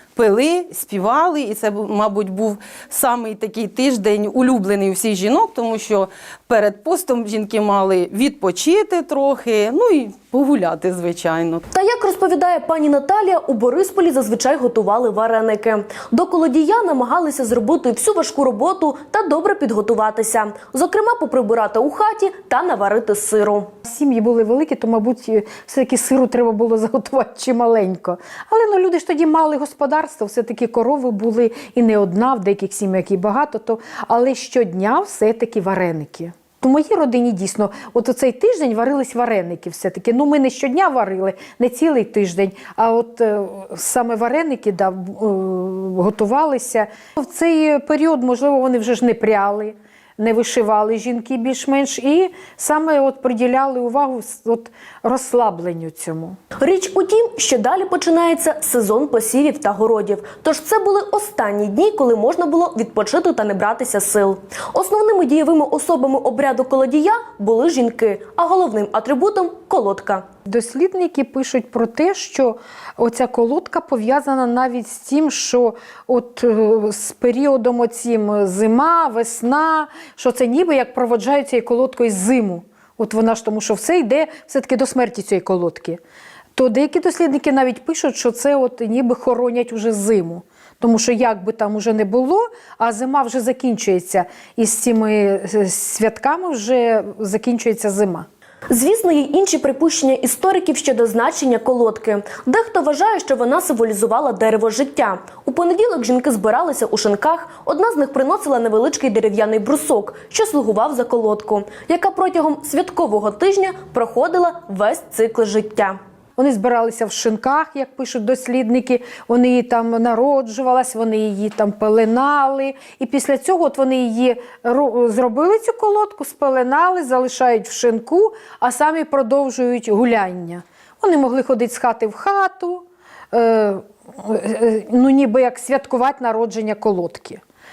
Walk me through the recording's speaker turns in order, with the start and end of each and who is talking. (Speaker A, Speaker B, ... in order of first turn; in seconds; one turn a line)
Speaker A: 0.1-11.7
Speaker B: 11.7-23.7
Speaker C: 23.8-56.4
Speaker B: 56.6-70.3
Speaker C: 70.5-86.0
Speaker C: 86.5-98.3
Speaker B: 98.7-116.0
Speaker C: 116.4-137.4